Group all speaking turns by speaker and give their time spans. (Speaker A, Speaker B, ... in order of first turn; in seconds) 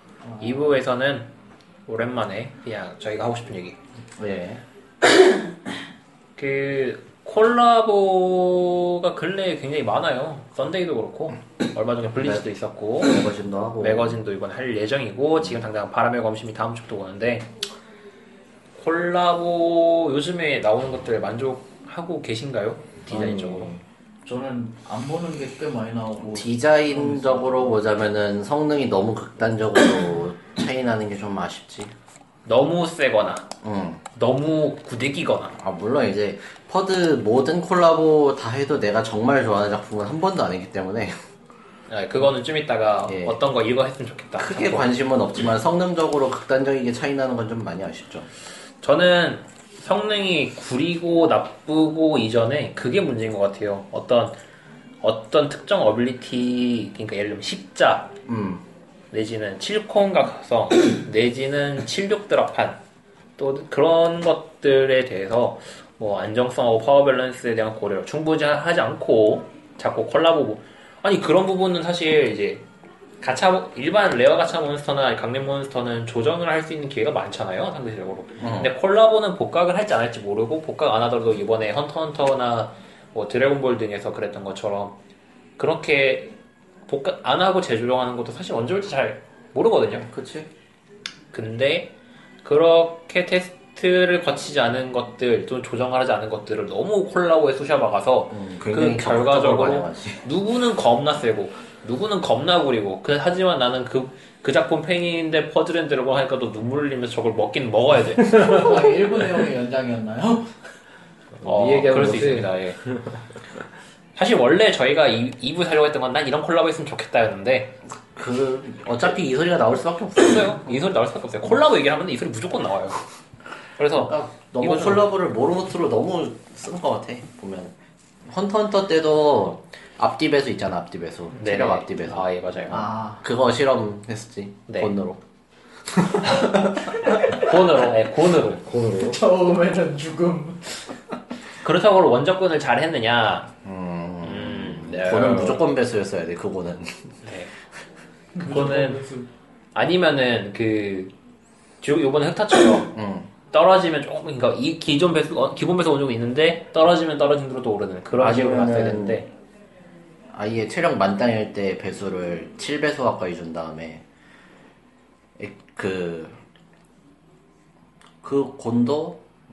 Speaker A: 0.4-1.3, 1.9-3.8, 6.4-13.2, 13.8-17.5, 18.8-23.7, 32.4-33.5, 34.1-35.5, 41.9-44.9, 48.8-54.4, 55.0-58.1, 59.1-62.8, 63.4-72.6, 73.2-85.0, 85.6-90.0, 91.3-91.9, 92.4-108.8, 111.4-112.8, 114.2-117.7, 120.2-123.0, 123.8-125.1, 131.3-132.8, 134.7-134.9, 137.2-138.6, 141.6-143.5, 144.2-145.7, 147.2-147.5, 148.4-149.0, 149.7-151.1, 151.8-152.9, 153.5-159.3
Speaker B: 4.2-4.6, 13.0-14.2, 26.3-31.9, 33.6-34.0, 35.5-41.1, 43.1-43.4, 44.4-48.3, 58.3-58.6, 78.4-78.7, 90.0-90.5, 98.3-100.2, 118.1-120.5, 124.0-127.7, 128.2-135.2, 136.0-136.5, 143.6-147.1, 152.9-153.3, 158.2-159.2, 160.3-164.0, 165.4-166.3, 168.2-169.2
Speaker C: 23.1-23.8, 111.4-112.5, 138.4-139.2
Speaker D: 24.2-27.7, 108.4-110.5, 132.7-133.2, 139.0-140.8, 148.3-149.3